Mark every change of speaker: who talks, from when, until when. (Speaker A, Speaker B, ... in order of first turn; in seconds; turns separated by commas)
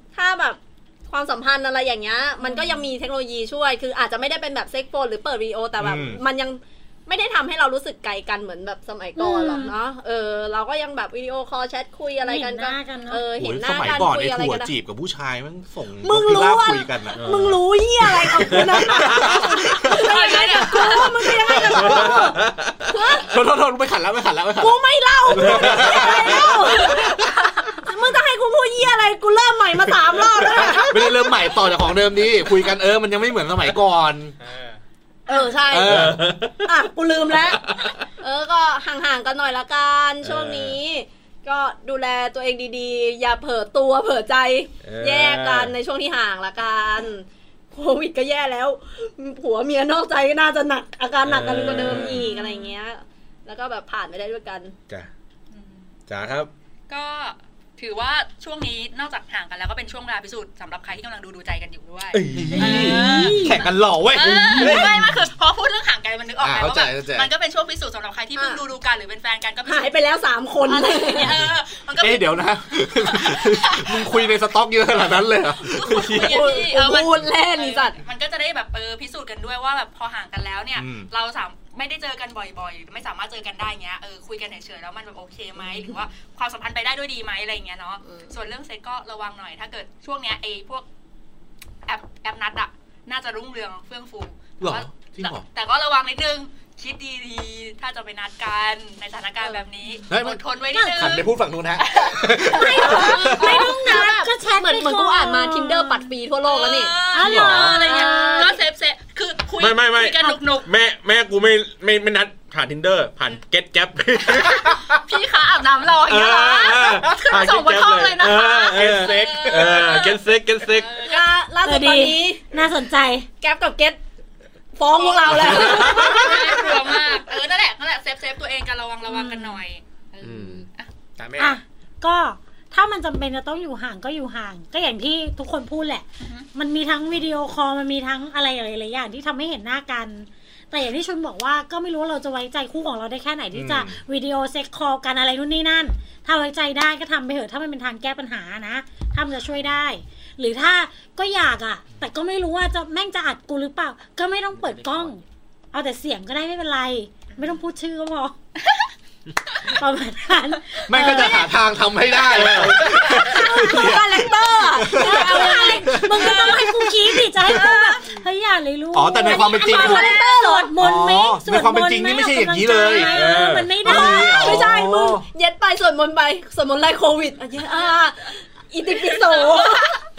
Speaker A: 0.1-14.7, Speaker B: 2.4-2.9, Speaker C: 5.8-6.2, Speaker B: 9.2-9.8, Speaker B: 12.2-13.3, Speaker C: 13.4-17.4, Speaker A: 16.0-23.3, Speaker D: 17.2-17.6, Speaker C: 18.0-22.4, Speaker D: 18.5-19.3, Speaker E: 19.8-21.4, Speaker D: 21.7-22.8, Speaker C: 23.2-27.3, Speaker A: 24.6-31.5, Speaker D: 25.4-26.8, Speaker C: 30.4-34.4, Speaker F: 34.4-34.8, Speaker A: 35.3-54.8, Speaker C: 35.7-36.2, Speaker D: 35.7-36.7, Speaker D: 37.4-38.0, Speaker D: 40.2-40.8, Speaker D: 44.8-45.8, Speaker D: 51.2-52.3, Speaker B: 52.1-52.8, Speaker D: 56.1-56.5, Speaker E: 56.9-69.9, Speaker D: 62.1-62.9, Speaker C: 62.3-65.2, Speaker B: 62.5-63.6, Speaker C: 66.4-67.3, Speaker A: 68.3-68.6, Speaker A: 69.7-71.4, Speaker E: 70.7-72.4, Speaker C: 72.0-76.6, Speaker E: 73.1-74.2, Speaker E: 75.7-90.9, Speaker A: 76.0-78.0, Speaker C: 80.8-81.1, Speaker A: 85.6-85.9, Speaker A: 88.0-88.3, Speaker E: 91.8-103.0, Speaker C: 94.6-95.4, Speaker C: 100.1-100.4, Speaker B: 100.7-101.2, Speaker C: 100.9-103.7, Speaker B: 102.5-106.1, Speaker A: 102.6-108.6, Speaker E: 106.5-110.7, Speaker B: 107.1-108.6, Speaker C: 107.2-107.7, Speaker D: 109.6-114.9, Speaker E: 114.3-121.3, Speaker D: 116.1-120.9, Speaker C: 118.7-119.3, Speaker F: 118.9-119.8, Speaker A: 121.0-122.6, Speaker B: 121.6-123.3, Speaker A: 123.4-124.0, Speaker A: 124.8-126.8, Speaker E: 125.0-130.9, Speaker D: 125.3-126.2, Speaker B: 125.9-126.5, Speaker B: 129.1-129.6, Speaker D: 130.2-130.7, Speaker F: 131.2-131.6, Speaker B: 131.4-158.3, Speaker E: 136.2-136.5, Speaker C: 143.5-144.0, Speaker F: 154.7-155.1, Speaker B: 159.7-161.5, Speaker C: 160.9-166.7, Speaker D: 162.3-162.8, Speaker A: 162.7-168.1, Speaker B: 164.9-174.6, Speaker C: 167.5-167.7, Speaker C: 168.9-170.2, Speaker A: 169.4-170.7, Speaker C: 170.8-173.2, Speaker D: 173.0-173.8, Speaker C: 173.8-175.2, Speaker A: 173.8-180.0, Speaker E: 178.9-180.0